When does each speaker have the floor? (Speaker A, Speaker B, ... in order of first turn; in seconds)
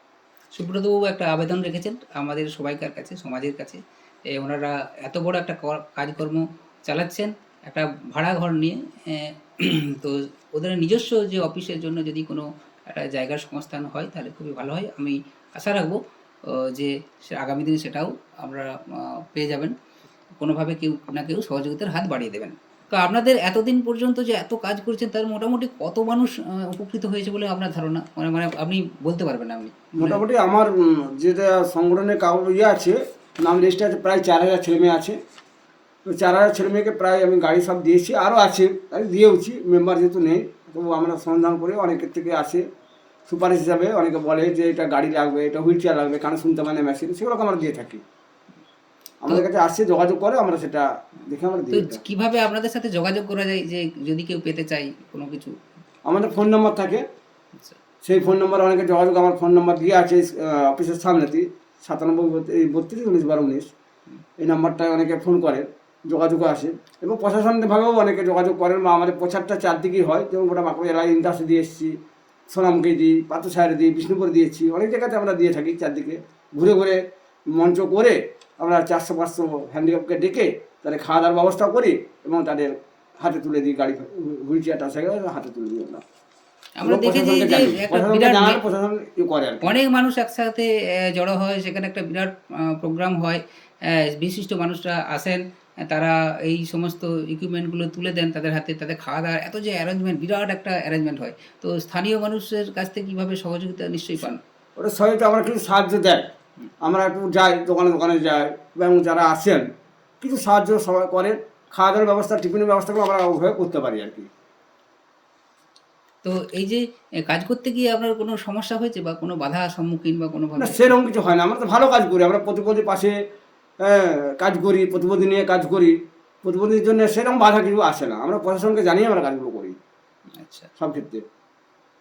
Speaker A: 0.5-19.7, 20.4-30.2, 51.7-55.6, 86.8-88.6, 89.6-104.4, 116.2-120.9, 130.4-130.7
Speaker B: 30.0-35.2, 36.1-42.6, 43.3-48.0, 49.2-52.0, 56.0-57.0, 58.0-63.7, 64.4-72.0, 72.5-77.0, 77.5-86.0, 86.8-89.8, 104.8-106.3, 106.8-109.7, 110.2-114.3, 120.6-123.2, 123.8-129.8, 130.8-131.2